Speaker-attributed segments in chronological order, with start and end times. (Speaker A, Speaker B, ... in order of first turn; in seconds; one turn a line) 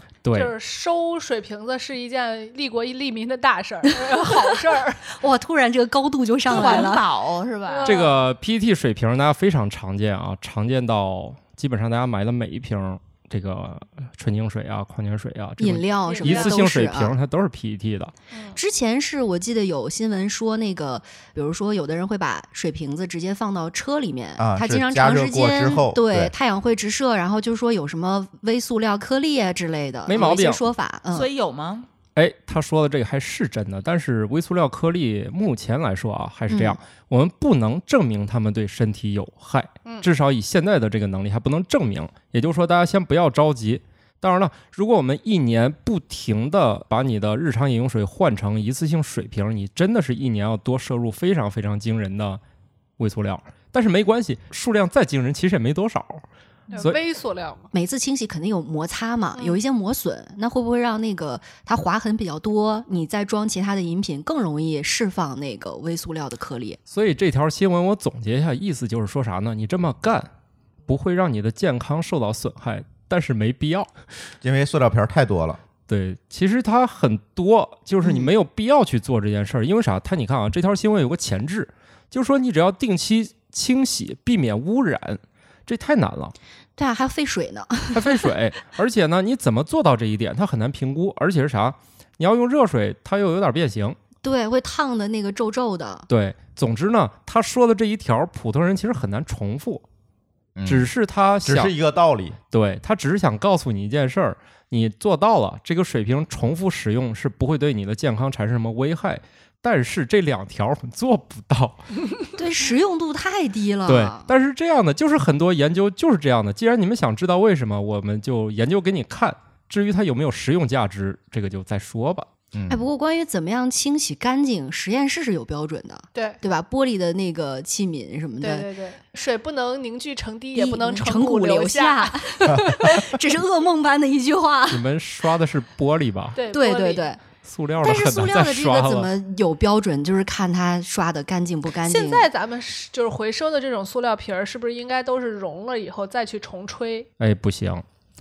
Speaker A: 0.2-0.5
Speaker B: 0.3-5.1
Speaker C: 5.1-7.0
Speaker D: 6.5-8.0
Speaker B: 6.5-7.0
Speaker B: 7.7-8.2
Speaker A: 7.8-18.1
Speaker C: 15.6-17.2
Speaker B: 16.0-16.6
Speaker B: 18.3-18.6
Speaker C: 18.5-31.3
Speaker E: 24.4-26.3
Speaker A: 30.1-30.7
Speaker D: 31.1-31.9
Speaker A: 32.1-52.4
Speaker C: 36.5-36.8
Speaker A: 53.0-56.2
Speaker B: 56.7-57.7
Speaker C: 57.7-66.8
Speaker B: 59.4-59.6
Speaker A: 66.9-70.3
Speaker A: 70.9-73.9
Speaker E: 74.4-75.6
Speaker A: 75.9-86.3
Speaker C: 78.0-78.3
Speaker C: 86.8-88.3
Speaker A: 87.9-94.0
Speaker C: 94.2-96.1
Speaker A: 96.1-99.8
Speaker E: 100.6-100.9
Speaker A: 100.7-101.7
Speaker E: 101.5-102.4
Speaker A: 102.5-111.8
Speaker C: 112.4-114.3
Speaker A: 113.9-122.3
Speaker E: 122.5-122.8
Speaker C: 122.7-128.7
Speaker B: 128.4-133.0
Speaker C: 130.6-134.9
Speaker A: 134.7-136.4
Speaker B: 136.4-137.1
Speaker C: 136.5-137.2
Speaker A: 137.4-139.1
Speaker C: 137.8-142.3
Speaker B: 141.8-147.1
Speaker A: 147.2-147.8